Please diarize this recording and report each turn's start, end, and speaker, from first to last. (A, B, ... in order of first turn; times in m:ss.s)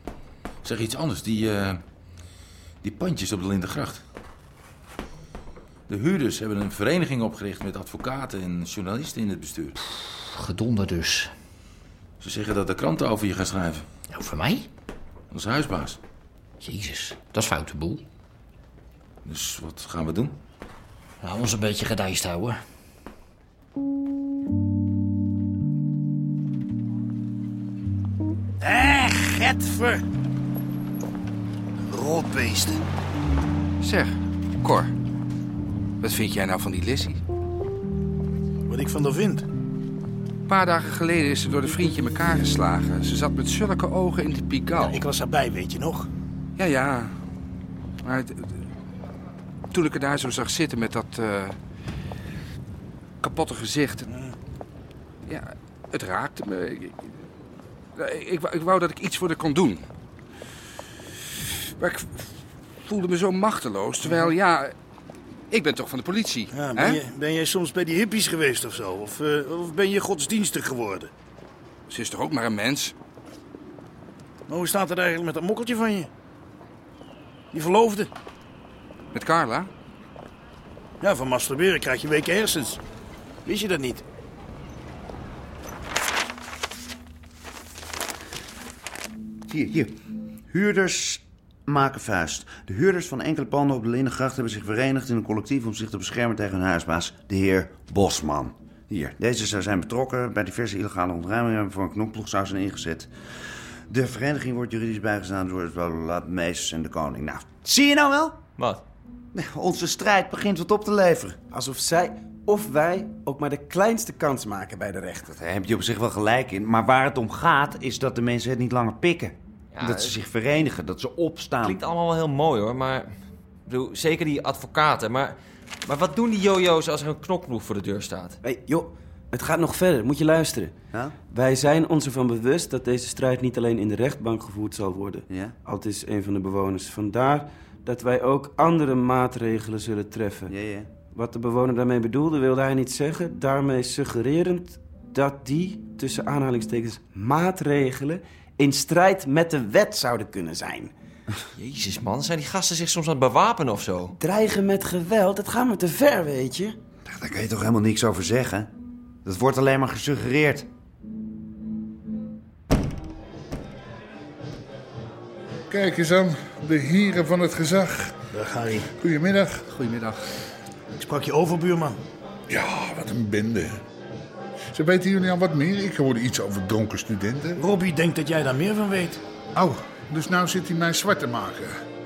0:00.6-0:01.8 A
0:02.8-0:04.0 A
0:05.9-0:09.7 A
0:10.2-0:11.3 B
0:12.2-0:13.9 A
0:14.1-0:14.7 B
0:15.3-0:16.0 A
0:16.6-0:18.0 B
0:19.2-0:20.4 A
0:21.2-0:22.6 B
0:28.6-0:30.0 C
0:31.9-0:32.9 C
0:33.8-0:34.9 D
0:36.0-0:37.2 D
0:38.7-0:39.4 C
0:40.5-0:45.0 D
0:44.8-0:46.1 C
0:46.6-0:47.1 D
0:48.0-0:48.5 D
0:49.7-0:51.6 D
0:53.2-0:54.1 D
0:55.2-0:57.1 D
0:58.0-0:59.9 D
1:01.5-1:02.3 D
1:02.8-1:04.7 D
1:05.5-1:07.0 D
1:06.5-1:11.1 C
1:11.9-1:12.9 D
1:14.5-1:16.1 C
1:17.5-1:18.1 C
1:19.1-1:19.7 D
1:21.0-1:22.8 C
1:23.4-1:24.0 C
1:29.5-1:30.0 E
1:30.5-1:43.1 E
1:43.9-1:48.4 E
1:49.3-1:51.4 E
1:51.5-1:55.3 F
1:55.3-2:01.8 E
1:59.7-2:00.1 G
2:01.6-2:03.1 G
2:03.6-2:08.4 G
2:08.4-2:10.8 F
2:11.3-2:20.5 F
2:15.3-2:15.6 E
2:20.5-2:20.9 E
2:21.0-2:30.9 F
2:31.6-2:34.1 G
2:34.2-2:36.8 F
2:37.0-2:38.7 E
2:39.2-2:40.7 E
2:45.7-2:48.2 H
2:48.3-2:48.9 C
2:49.0-2:49.6 H
2:49.7-2:50.2 D
2:51.0-2:52.0 C
2:52.5-2:53.8 H
2:54.7-2:57.6 H
2:57.6-2:59.2 C
2:59.5-3:01.7 H